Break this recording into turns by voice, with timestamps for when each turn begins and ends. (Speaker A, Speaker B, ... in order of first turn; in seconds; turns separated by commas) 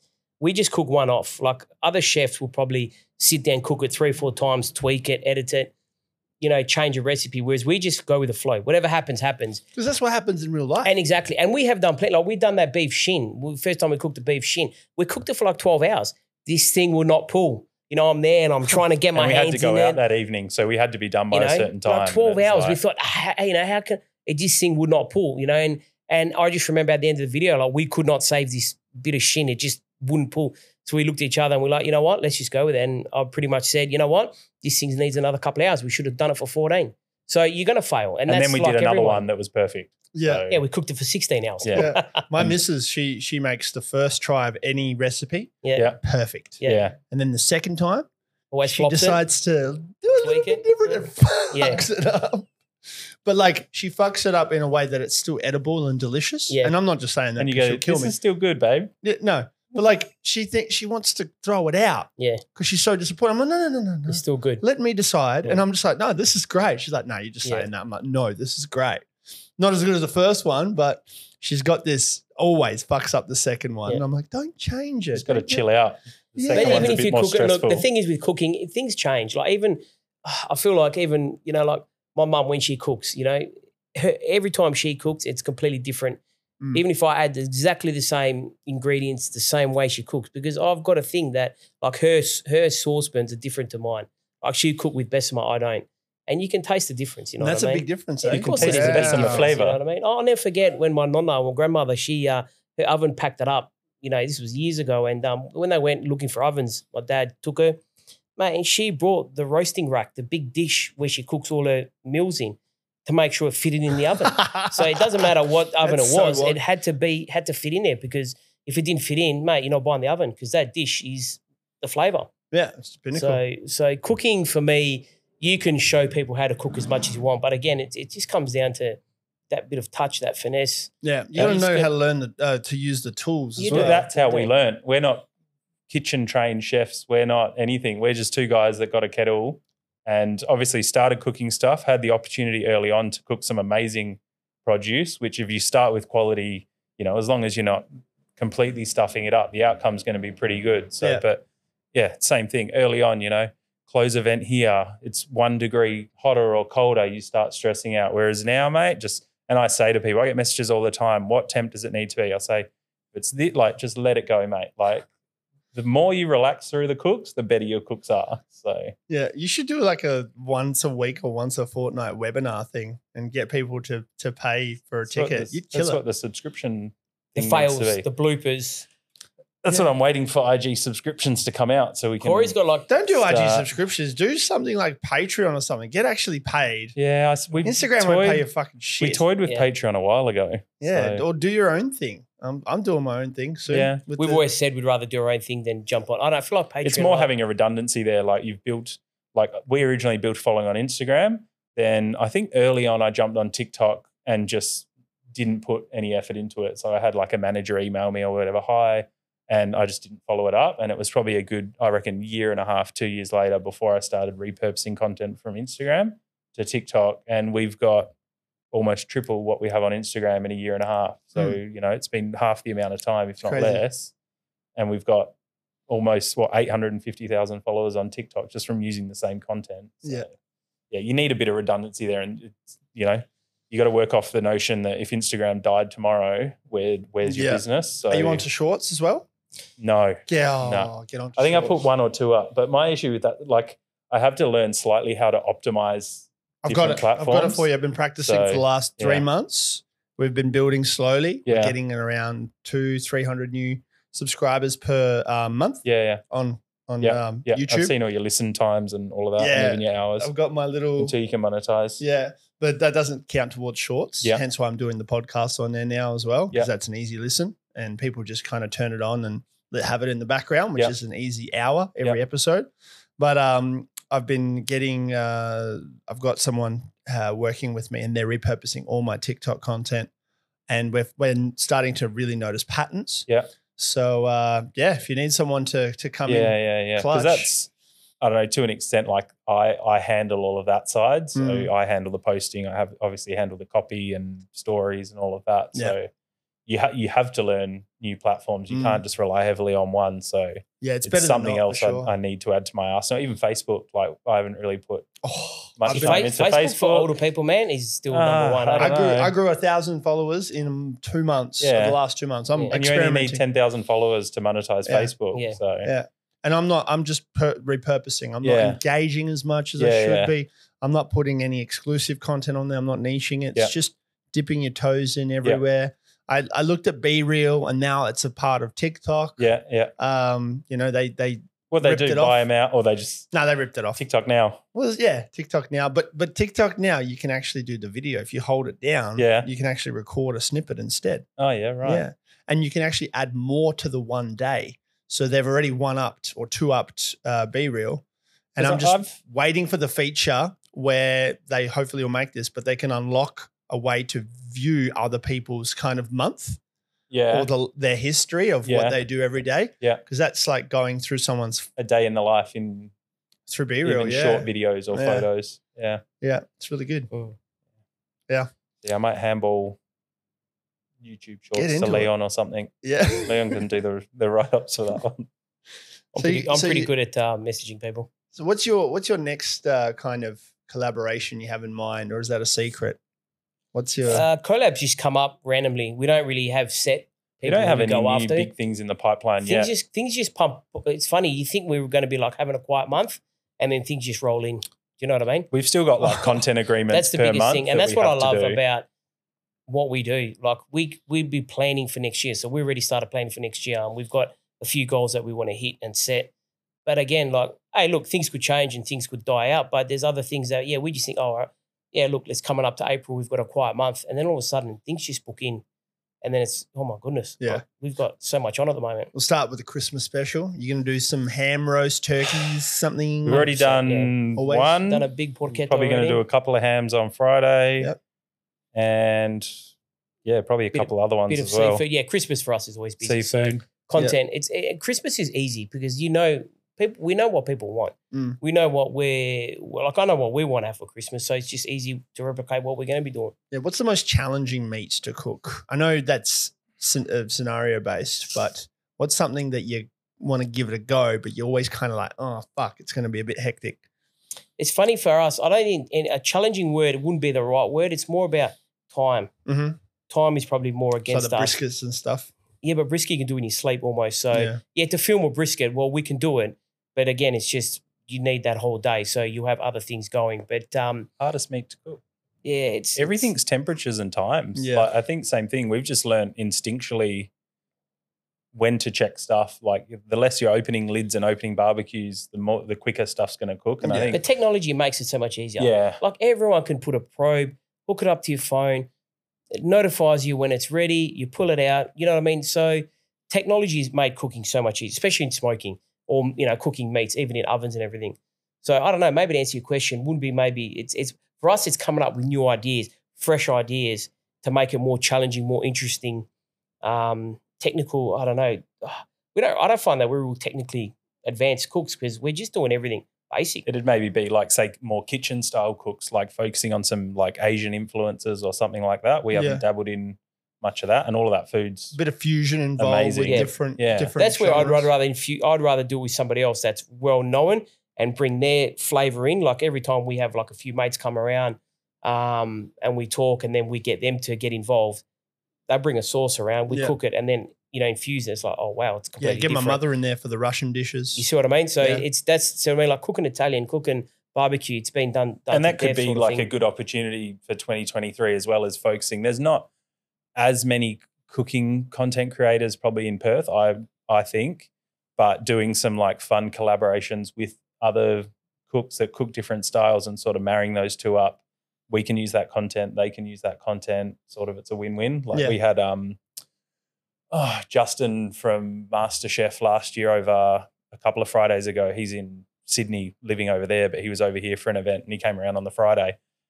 Speaker A: 0.4-5.7, Speaker A: 6.4-9.6, Speaker B: 9.8-10.9, Speaker A: 10.8-20.0, Speaker C: 19.1-22.8, Speaker A: 21.3-39.2, Speaker C: 38.3-40.6, Speaker B: 40.1-40.4, Speaker A: 40.5-42.2, Speaker C: 41.6-42.5, Speaker B: 41.8-48.1, Speaker A: 45.6-45.9, Speaker C: 45.8-46.0, Speaker C: 46.6-47.0, Speaker A: 48.5-49.2, Speaker B: 48.6-52.5, Speaker A: 50.2-51.9, Speaker B: 53.2-58.1, Speaker A: 56.5-56.7, Speaker C: 57.4-58.9, Speaker B: 59.0-69.1, Speaker A: 62.2-62.4, Speaker A: 64.1-64.6, Speaker B: 69.6-75.6, Speaker C: 75.1-77.9, Speaker B: 76.4-77.0, Speaker A: 76.5-86.2, Speaker A: 86.7-107.8, Speaker B: 97.4-99.5, Speaker C: 98.3-99.8, Speaker A: 108.4-122.3, Speaker B: 114.3-115.3, Speaker B: 115.8-116.6, Speaker B: 122.5-123.4, Speaker A: 123.1-131.9, Speaker B: 131.0-134.0, Speaker A: 133.6-134.5, Speaker C: 133.7-135.3, Speaker C: 135.9-147.9, Speaker C: 148.4-165.1, Speaker C: 165.7-168.9, Speaker B: 169.1-176.0, Speaker C: 175.1-178.1, Speaker A: 177.3-178.9, Speaker C: 179.6-182.5, Speaker A: 182.2-182.9, Speaker B: 182.9-187.0, Speaker C: 183.2-183.7, Speaker C: 187.0-188.5, Speaker B: 187.6-189.2, Speaker C: 189.0-191.2, Speaker B: 190.8-194.4, Speaker C: 193.7-194.0, Speaker A: 194.2-197.3, Speaker C: 196.8-218.1, Speaker C: 218.7-224.1, Speaker B: 223.4-223.8, Speaker C: 224.8-225.3, Speaker C: 225.9-230.3, Speaker C: 230.9-238.4, Speaker B: 237.2-239.3, Speaker C: 239.8-247.7, Speaker B: 240.3-241.8, Speaker B: 246.6-257.9, Speaker C: 248.2-249.2, Speaker C: 251.5-251.8, Speaker C: 255.8-256.2, Speaker C: 257.0-260.3, Speaker B: 259.4-261.1, Speaker C: 261.0-262.0, Speaker B: 262.0-280.1, Speaker B: 280.7-283.3, Speaker B: 283.8-287.5, Speaker C: 286.3-287.7, Speaker C: 288.2-296.1, Speaker B: 291.4-291.7, Speaker C: 296.7-305.1, Speaker B: 298.7-299.0, Speaker B: 300.8-302.1, Speaker B: 305.2-306.3, Speaker C: 305.8-307.2, Speaker A: 305.9-309.0, Speaker C: 308.1-309.3, Speaker B: 308.8-313.4, Speaker C: 311.6-312.0, Speaker C: 312.7-315.9, Speaker B: 314.9-315.1, Speaker A: 315.3-315.6, Speaker B: 315.8-329.5, Speaker C: 318.4-318.8, Speaker C: 319.8-320.3, Speaker C: 329.4-329.9, Speaker B: 330.0-332.4, Speaker C: 331.7-333.3, Speaker B: 333.3-334.0, Speaker C: 334.0-334.6, Speaker B: 334.7-341.3, Speaker C: 339.2-339.5, Speaker C: 341.4-342.0, Speaker B: 341.8-348.0, Speaker B: 348.6-356.6, Speaker C: 348.6-349.2, Speaker C: 357.1-357.5, Speaker B: 357.3-361.7, Speaker C: 358.6-359.0, Speaker C: 361.8-362.9, Speaker B: 363.5-365.3, Speaker C: 363.8-366.0, Speaker B: 366.2-367.1, Speaker C: 368.8-369.8, Speaker C: 371.0-375.3, Speaker B: 371.6-372.1, Speaker B: 372.8-373.6, Speaker A: 376.1-378.1, Speaker B: 376.2-376.9, Speaker B: 378.3-383.0, Speaker B: 383.7-384.2, Speaker A: 384.1-388.5, Speaker C: 387.4-389.7, Speaker A: 389.4-395.5, Speaker C: 395.5-398.6, Speaker A: 396.0-396.3, Speaker A: 396.9-398.9, Speaker A: 399.7-406.3, Speaker A: 406.9-415.6, Speaker A: 416.2-419.1, Speaker B: 419.1-423.5, Speaker C: 423.2-427.9, Speaker A: 423.3-424.2, Speaker B: 424.4-424.8, Speaker A: 424.8-426.2, Speaker C: 428.7-429.5, Speaker C: 430.2-431.8, Speaker A: 430.7-443.3, Speaker C: 433.0-433.6, Speaker B: 438.1-438.4, Speaker B: 443.5-453.8, Speaker A: 454.6-459.3, Speaker B: 459.5-459.8, Speaker A: 460.1-461.6, Speaker B: 461.1-462.3, Speaker A: 462.6-471.1, Speaker B: 464.3-464.6, Speaker C: 471.2-472.0, Speaker A: 472.4-473.3, Speaker C: 473.0-477.3, Speaker B: 474.6-474.9, Speaker C: 478.5-484.2, Speaker B: 483.8-484.2, Speaker A: 484.1-488.9, Speaker C: 485.6-486.0, Speaker A: 489.5-506.3, Speaker A: 506.8-513.6, Speaker C: 513.7-522.0, Speaker B: 519.3-519.6, Speaker B: 521.9-524.9, Speaker C: 522.8-524.1, Speaker A: 523.3-523.5, Speaker A: 524.2-535.0, Speaker A: 535.7-539.8, Speaker B: 539.2-541.2, Speaker A: 541.1-546.5, Speaker C: 545.5-549.7, Speaker C: 550.4-566.2, Speaker C: 567.3-576.2